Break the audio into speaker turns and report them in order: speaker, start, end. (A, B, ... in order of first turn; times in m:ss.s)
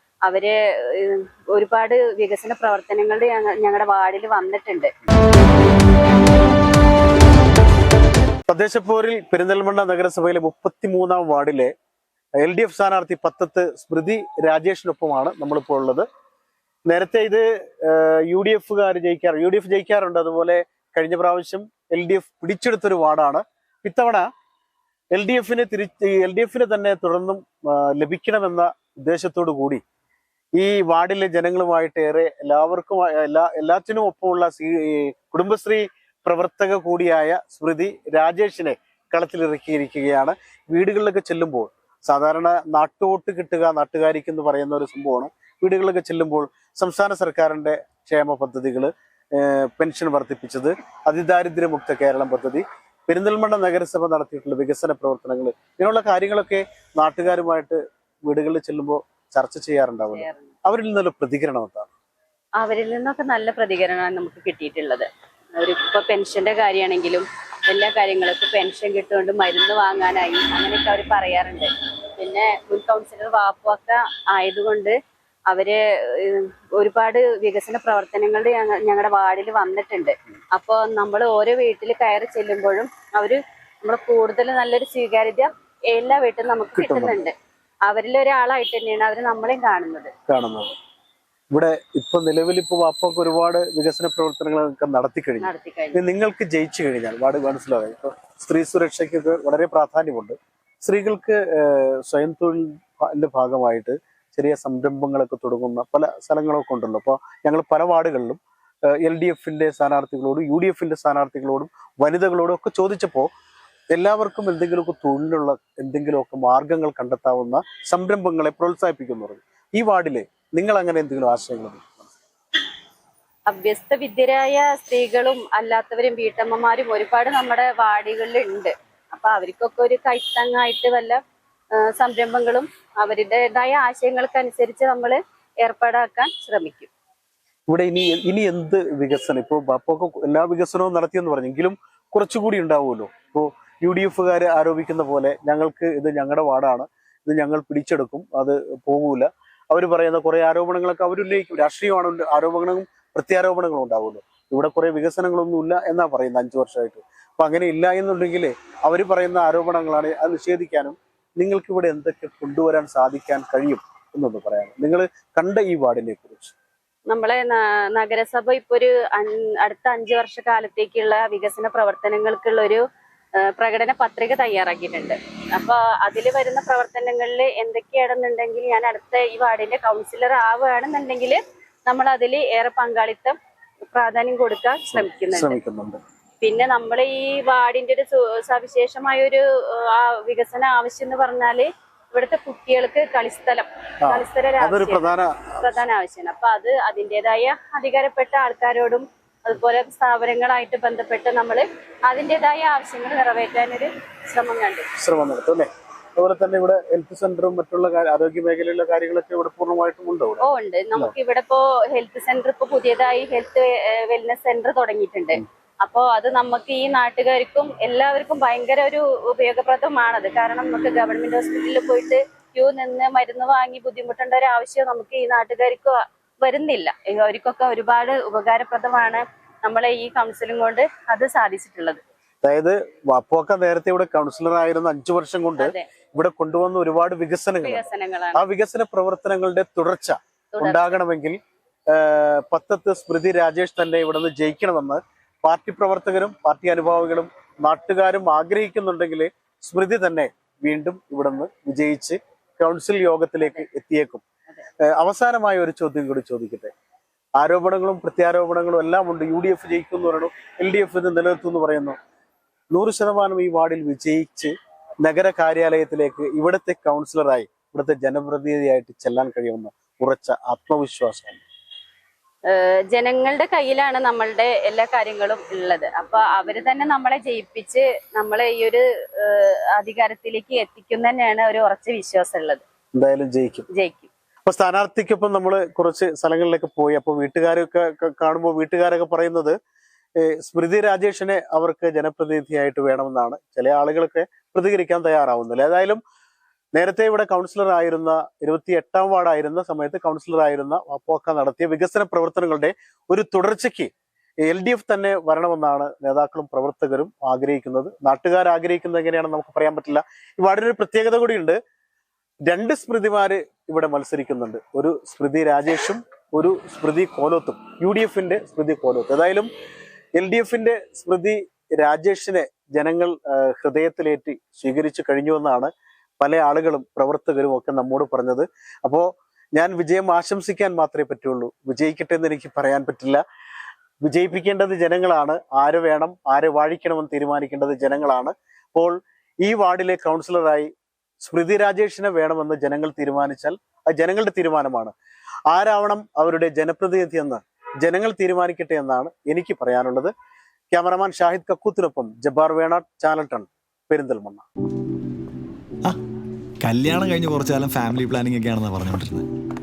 0:00.2-0:04.9 A
0:08.5-0:11.7 B
0:12.4-0:16.0 B
0:16.9-0:24.3 B
0:25.1-0:29.8 B
0:30.6-1:01.9 B
1:00.1-1:00.5 A
1:02.6-1:15.0 A
1:15.5-1:27.3 A
1:26.8-1:27.2 B
1:27.9-1:30.1 A
1:30.3-1:30.7 B
1:31.5-1:53.3 B
1:35.4-1:36.0 A
1:53.9-2:02.1 B
2:03.5-2:11.2 A
2:11.7-2:16.9 A
2:17.7-2:46.5 B
2:47.1-2:52.8 A
2:53.4-3:03.4 A
3:03.9-3:05.6 A
3:04.9-3:06.0 B
3:06.4-3:24.9 A
3:14.0-3:15.6 B
3:25.0-3:31.1 B
3:30.4-3:52.0 A
3:52.4-4:01.4 B
3:55.6-3:55.8 A
3:57.6-3:58.4 A
4:00.5-4:00.9 A
4:01.9-4:14.2 B
4:14.8-4:16.7 B
4:17.4-4:22.0 B
4:22.7-4:31.4 B
4:32.5-4:42.6 A
4:42.9-4:43.6 B
4:43.7-4:44.1 A
4:44.5-4:49.6 B
4:50.2-4:56.0 B
4:56.7-5:03.9 B
5:04.4-5:11.6 B
5:12.4-5:19.5 B
5:20.1-5:33.2 B
5:34.0-5:40.7 B
5:41.2-5:44.9 B
5:45.5-5:50.1 B
5:50.7-5:54.4 B
5:56.6-5:59.2 C